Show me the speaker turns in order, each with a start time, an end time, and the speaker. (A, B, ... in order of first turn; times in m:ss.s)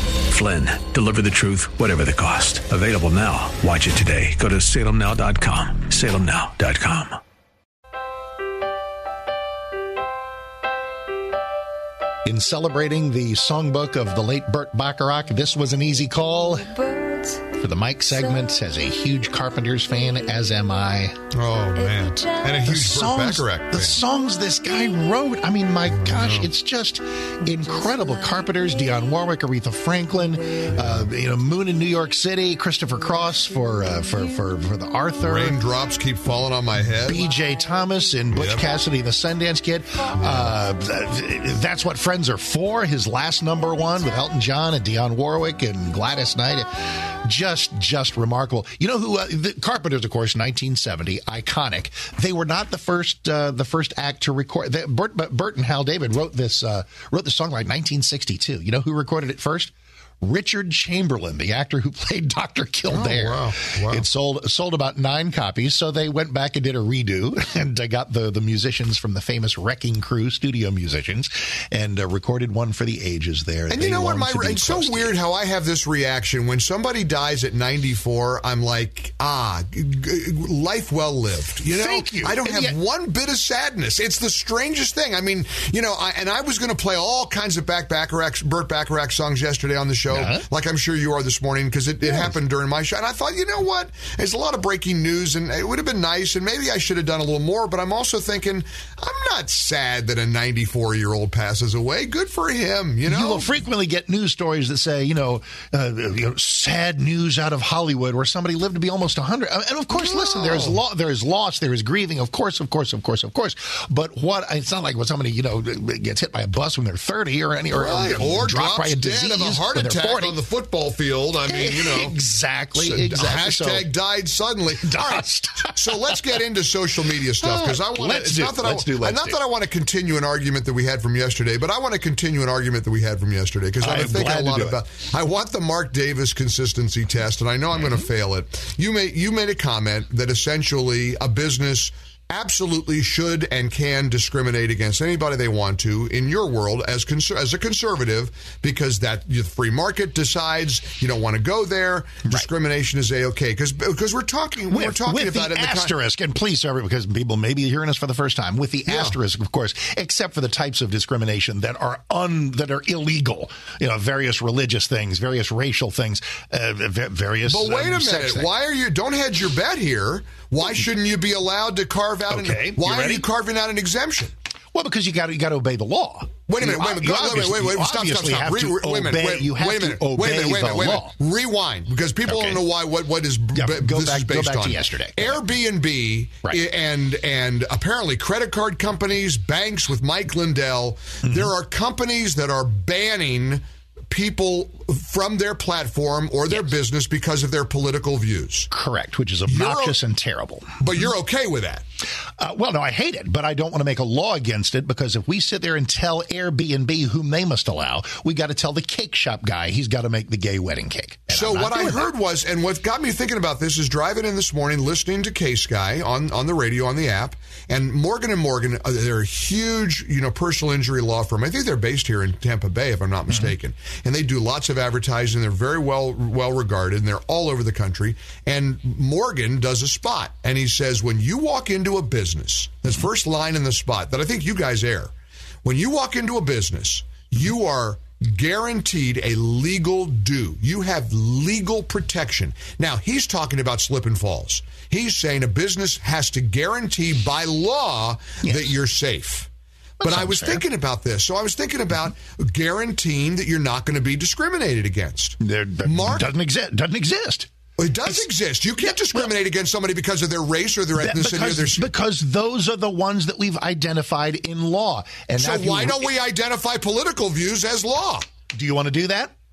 0:00.3-0:07.2 A
0:12.2-0:16.8 B
0:17.5-0:21.2 B
0:21.3-0:24.0 C
0:22.6-0:35.6 B
0:25.9-0:26.5 C
0:35.2-0:37.2 C
0:37.0-1:15.1 B
0:38.3-0:38.6 C
1:02.9-1:04.0 C
1:13.7-1:43.5 C
1:21.6-1:22.8 B
1:30.1-1:30.4 B
1:32.0-1:32.4 B
1:43.0-2:00.4 B
1:49.9-1:50.8 C
1:57.7-2:02.2 C
2:01.4-2:03.9 B
2:02.8-2:05.2 C
2:04.8-2:06.4 B
2:05.8-2:35.9 C
2:07.4-2:09.4 B
2:13.8-2:14.8 B
2:34.7-2:48.5 B
2:38.9-2:39.2 C
2:47.4-2:54.3 C
2:52.3-2:53.3 B
2:54.7-3:01.2 B
2:56.5-3:18.7 C
3:02.2-3:02.6 B
3:03.5-3:05.5 B
3:11.2-3:11.5 B
3:18.7-3:21.0 B
3:19.4-3:20.0 C
3:20.8-3:21.8 C
3:22.4-3:32.1 B
3:31.3-4:09.5 C
4:08.4-4:08.8 B
4:10.0-4:10.6 B
4:10.0-4:16.3 C
4:15.4-4:17.5 B
4:17.8-4:21.9 C
4:18.8-4:19.3 B
4:21.0-4:26.1 B
4:25.4-4:28.3 C
4:28.5-4:29.3 B